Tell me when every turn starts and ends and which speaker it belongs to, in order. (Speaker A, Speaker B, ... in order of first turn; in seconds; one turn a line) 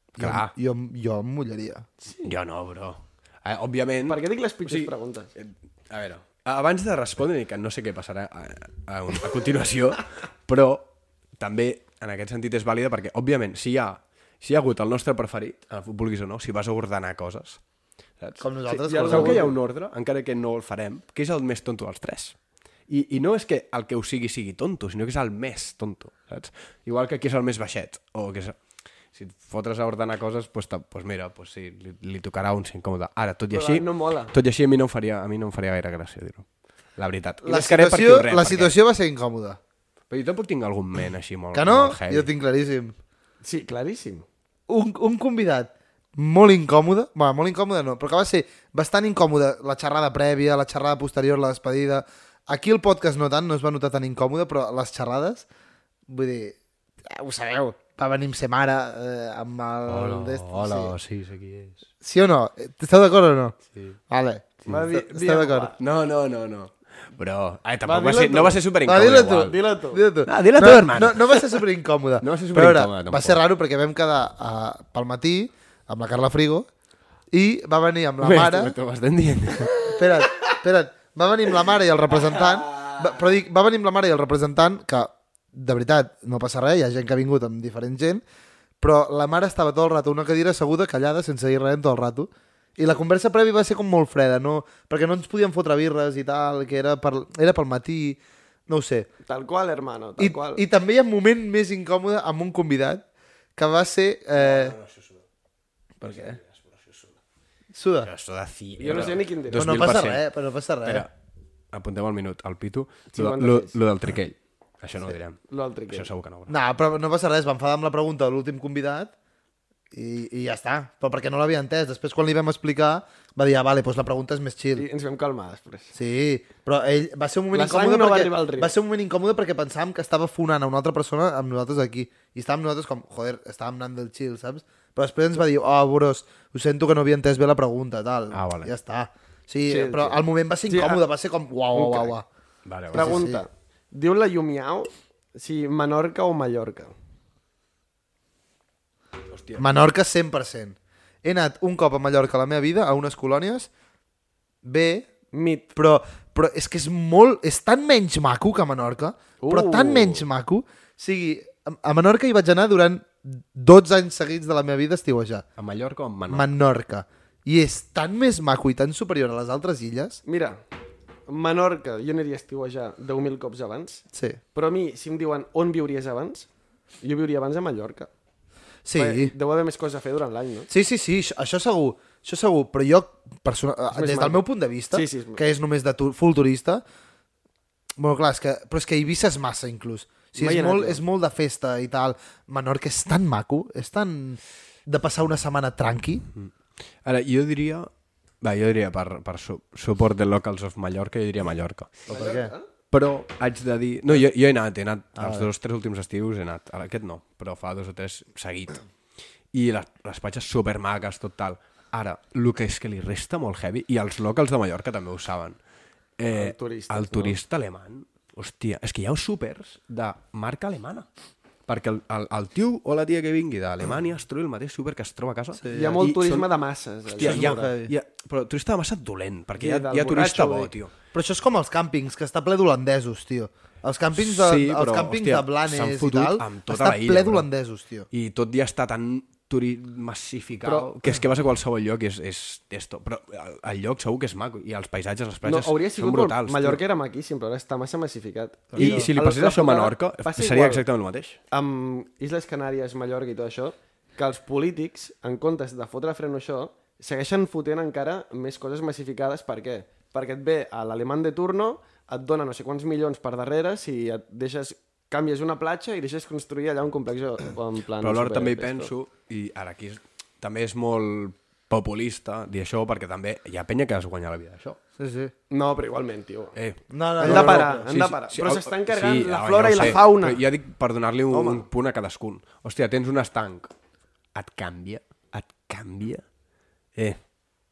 Speaker A: 0.2-1.9
Speaker B: 0.2-0.5
Speaker C: 2.0-2.3
Speaker B: 2.2-17.6
Speaker C: 4.1-5.3
Speaker B: 18.2-18.4
Speaker A: 18.4-19.5
Speaker C: 18.7-19.5
Speaker B: 19.0-22.4
Speaker B: 22.9-28.6
Speaker B: 29.1-36.5
Speaker C: 33.5-34.3
Speaker B: 37.0-38.7
Speaker A: 37.4-39.6
Speaker B: 40.1-42.3
Speaker A: 41.5-43.0
Speaker C: 43.4-44.3
Speaker A: 44.7-55.5
Speaker A: 56.1-60.9
Speaker B: 59.9-61.9
Speaker A: 62.0-63.6
Speaker B: 63.7-64.0
Speaker A: 64.1-65.7
Speaker C: 64.7-65.8
Speaker B: 65.8-69.6
Speaker C: 67.8-68.6
Speaker A: 68.8-76.7
Speaker C: 69.3-70.0
Speaker B: 70.3-71.6
Speaker B: 72.2-73.4
Speaker A: 77.3-78.8
Speaker B: 78.2-80.0
Speaker A: 79.8-88.2
Speaker A: 88.8-99.1
Speaker C: 99.3-100.6
Speaker A: 100.2-103.0
Speaker A: 103.6-104.8
Speaker B: 104.4-105.2
Speaker B: 106.0-107.1
Speaker A: 106.0-106.4
Speaker A: 107.7-108.1
Speaker B: 108.0-110.3
Speaker C: 108.8-110.0
Speaker A: 109.6-111.1
Speaker B: 110.8-111.1
Speaker B: 111.7-116.5
Speaker C: 113.1-113.8
Speaker C: 115.5-116.1
Speaker A: 116.5-119.1
Speaker A: 119.9-124.8
Speaker C: 124.8-126.0
Speaker A: 125.9-142.2
Speaker C: 127.5-128.7
Speaker B: 138.3-138.7
Speaker C: 139.7-141.0
Speaker C: 141.7-142.1
Speaker B: 142.7-143.2
Speaker A: 142.9-143.4
Speaker C: 142.9-146.9
Speaker B: 149.3-149.7
Speaker A: 149.6-153.7
Speaker A: 154.6-155.1
Speaker C: 155.3-155.7
Speaker A: 155.8-165.4
Speaker C: 159.4-160.2
Speaker B: 165.6-166.5
Speaker A: 166.3-170.2
Speaker C: 170.3-170.6
Speaker C: 171.3-176.5
Speaker A: 174.1-174.4
Speaker C: 177.0-178.1
Speaker A: 178.8-179.3
Speaker C: 178.9-180.7
Speaker A: 180.7-186.8
Speaker C: 183.9-185.4
Speaker A: 188.0-196.2
Speaker C: 190.4-191.0
Speaker B: 197.0-197.9
Speaker B: 198.4-202.1
Speaker C: 202.1-202.7
Speaker A: 202.1-202.5
Speaker B: 202.9-208.8
Speaker A: 205.2-205.5
Speaker B: 209.5-215.6
Speaker B: 216.2-221.1
Speaker C: 216.3-217.4
Speaker B: 221.7-226.5
Speaker A: 225.6-226.0
Speaker C: 225.7-227.7
Speaker B: 227.1-230.9
Speaker A: 227.2-227.9
Speaker C: 229.6-230.7
Speaker A: 231.1-238.1
Speaker B: 234.2-237.5
Speaker B: 238.1-246.8
Speaker C: 240.6-240.9
Speaker C: 245.4-250.8
Speaker A: 248.7-249.1
Speaker B: 248.8-251.4
Speaker C: 251.5-268.9
Speaker B: 268.0-274.8
Speaker A: 275.0-275.3
Speaker C: 275.5-276.6
Speaker B: 276.6-283.7
Speaker A: 276.9-277.8
Speaker C: 277.2-280.4
Speaker C: 281.3-281.6
Speaker B: 284.3-286.2